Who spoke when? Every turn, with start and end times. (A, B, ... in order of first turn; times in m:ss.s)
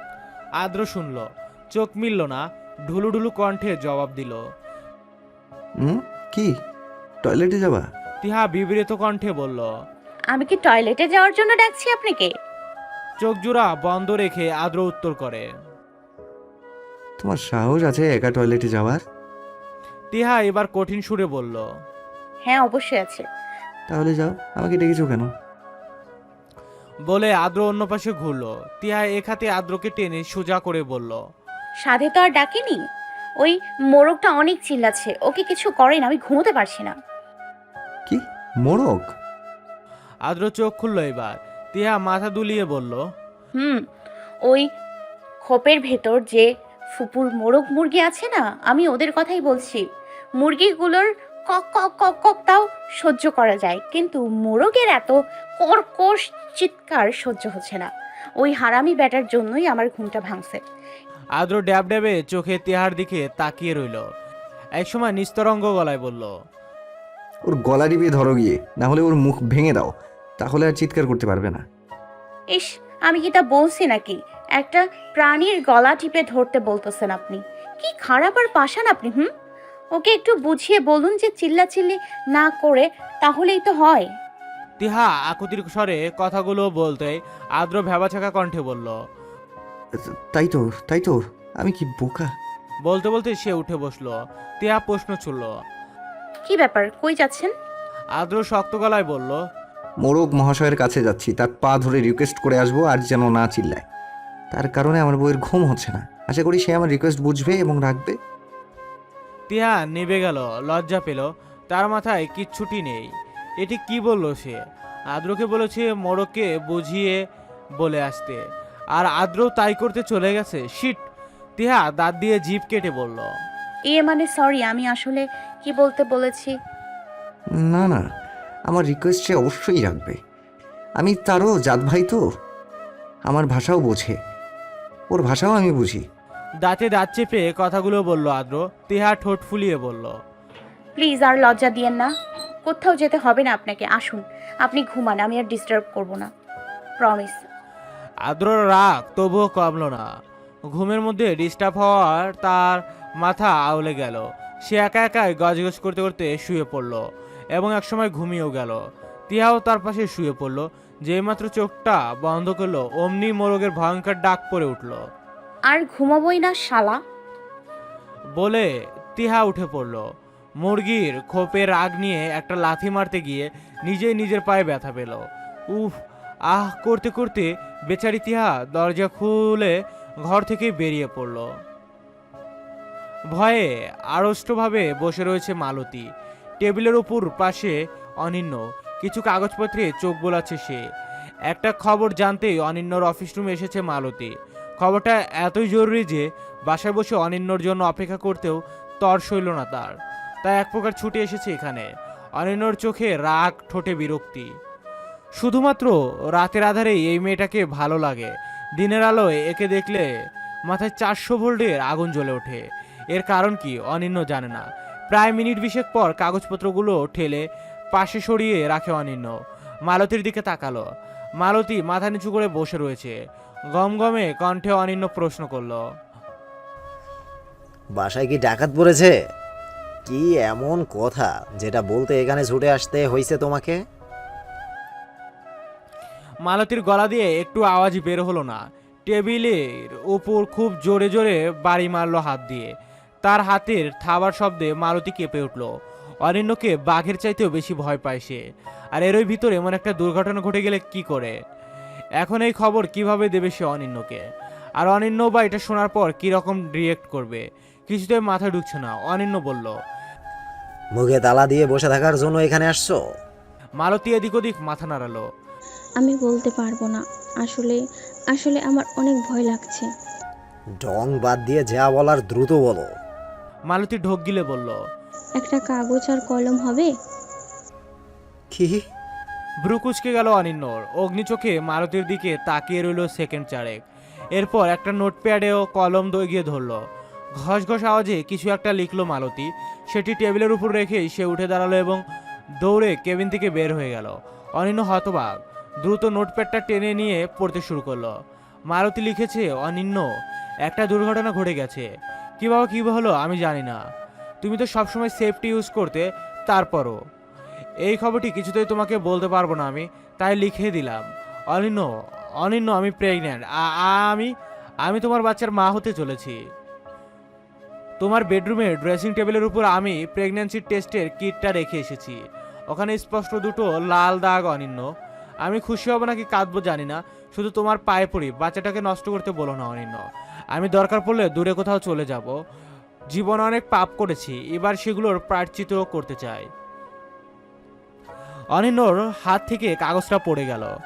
0:00.6-0:04.4 A
0:05.8-0:06.5 B
0:07.2-0:07.8 B
0:08.2-0:09.7 A
0:10.3-0:12.3 C
0:13.2-0:15.5 A
0:17.2-0:19.0 B
0:20.1-0:21.6 A
0:22.5-0:23.2 C
0:23.9-0:25.3 B
0:27.1-0:31.2 A
0:31.8-0:32.8 C
0:33.4-0:37.0 C
0:38.1-0:39.1 B
0:40.3-0:43.0 A
0:45.4-0:49.8 C
0:50.4-1:00.6 C
1:01.4-1:04.0 A
1:04.8-1:06.3 A
1:07.5-1:11.6 B
1:12.5-1:19.3 C
1:20.0-1:24.1 C
1:24.8-1:29.0 A
1:30.3-1:32.3 B
1:32.9-1:35.5 A
1:36.5-1:37.5 C
1:38.2-1:39.4 A
1:40.0-1:43.8 B
1:44.5-1:48.2 B
1:49.5-1:54.6 A
1:55.1-1:57.2 A
1:57.8-1:58.4 A
1:59.0-2:01.0 A
2:01.6-2:03.3 A
2:03.9-2:06.6 C
2:07.6-2:08.0 B
2:08.7-2:10.2 B
2:11.0-2:12.2 B
2:13.3-2:14.2 B
2:15.1-2:16.0 B
2:16.6-2:20.2 A
2:21.0-2:22.1 C
2:22.7-2:26.3 C
2:27.0-2:27.4 C
2:28.3-2:30.1 A
2:30.7-2:37.0 A
2:37.6-2:45.0 A
2:45.7-2:47.0 C
2:48.4-2:50.0 A
2:50.6-2:55.9 A
2:56.5-3:01.4 A
3:03.3-3:06.1 A
3:06.6-3:10.8 A
3:11.5-3:24.5 A
3:25.4-3:30.1 A
3:30.7-3:39.4 A
3:39.9-3:40.9 A
3:41.4-3:43.2 A
3:43.8-3:45.8 A
3:47.9-3:49.2 D
3:50.1-3:53.8 D
3:56.4-4:05.7 A
4:06.2-4:08.4 A
4:08.9-4:11.4 A
4:12.2-4:14.2 A
4:14.8-4:19.8 A
4:20.9-4:23.0 D
4:23.8-4:25.3 A
4:26.0-4:27.8 E
4:28.3-4:29.9 E
4:30.8-4:32.9 D
4:33.7-4:34.8 A
4:35.4-4:36.9 E
4:38.5-4:38.8 D
4:39.6-4:43.8 A
4:44.4-4:46.8 A
4:47.4-4:52.0 A
4:52.6-4:55.3 A
4:55.8-4:58.1 A
4:58.7-5:00.1 A
5:00.7-5:01.9 A
5:02.4-5:03.8 A
5:04.4-5:07.0 A
5:07.9-5:11.9 A
5:12.4-5:14.3 A
5:14.8-5:16.4 A
5:18.0-5:22.2 A
5:22.7-5:24.9 A
5:25.4-5:32.4 A
5:33.1-5:36.5 A
5:38.6-5:40.7 A